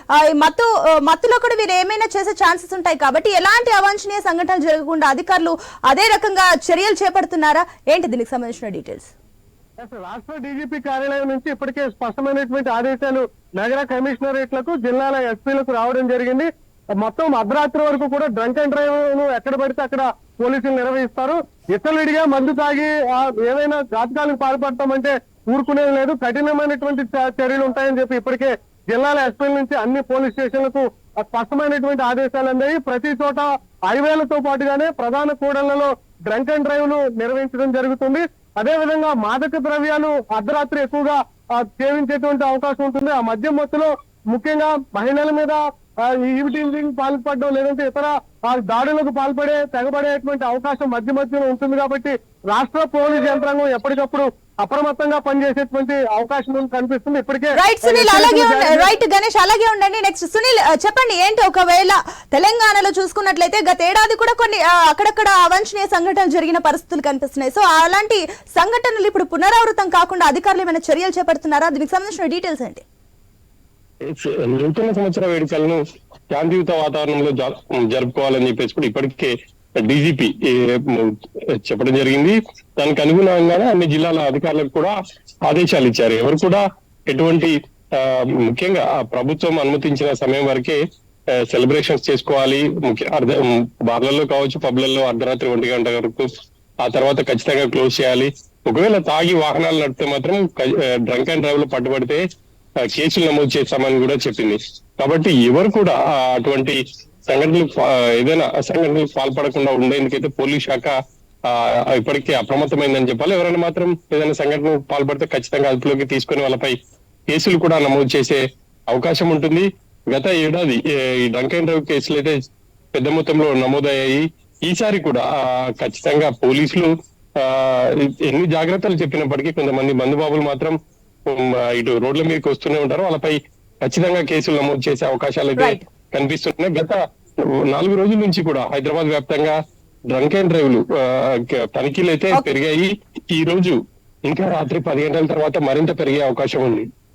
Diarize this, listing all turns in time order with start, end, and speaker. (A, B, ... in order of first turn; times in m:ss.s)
0:00.2-0:09.1 A
0:09.8-0:16.5 B
0:17.0-0:45.6 B
0:46.1-0:58.9 B
0:57.6-1:12.8 A
1:14.1-1:15.8 C
1:16.3-1:24.9 C
1:25.4-1:30.8 C
1:31.5-1:36.3 C
1:36.8-1:42.2 C
1:42.9-1:50.9 C
1:51.5-1:56.7 C
1:57.3-2:02.4 C
2:02.9-2:17.0 C
2:15.6-2:15.8 A
2:17.6-2:19.6 C
2:20.1-2:26.9 C